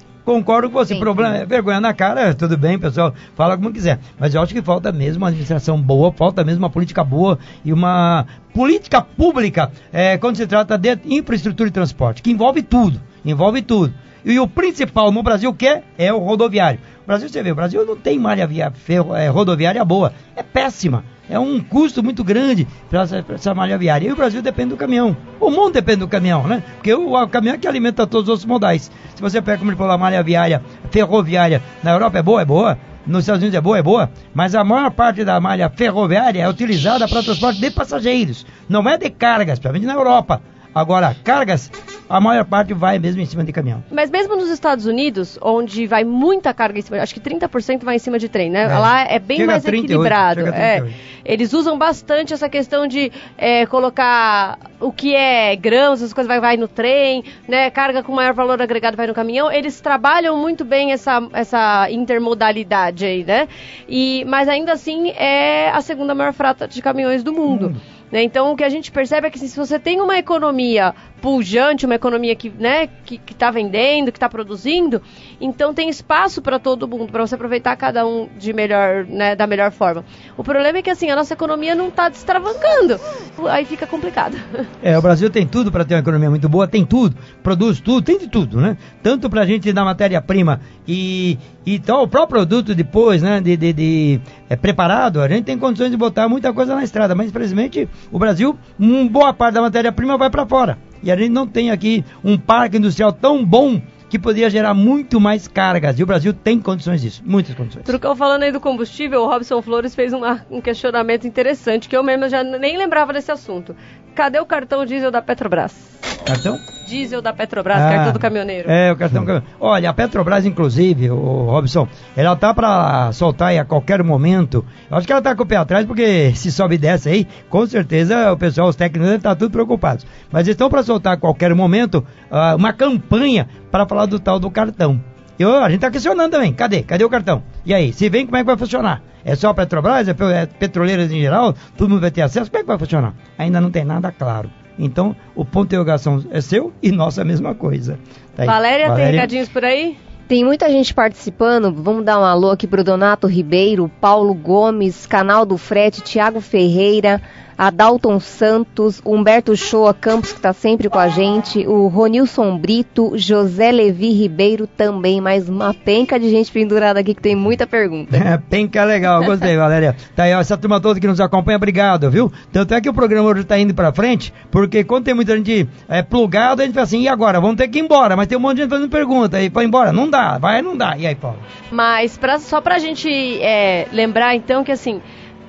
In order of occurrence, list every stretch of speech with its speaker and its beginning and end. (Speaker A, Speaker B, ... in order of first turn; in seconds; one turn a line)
Speaker A: 0.3-43.9
Speaker B: 43.9-84.7
Speaker A: 48.7-51.0
Speaker A: 67.5-67.8
Speaker A: 84.8-108.0
Speaker B: 107.8-116.0
Speaker A: 116.3-116.6
Speaker B: 116.8-118.7
Speaker A: 117.7-149.3
Speaker B: 148.4-150.0
Speaker C: 150.3-168.3
Speaker A: 168.1-181.4
Speaker B: 181.7-185.0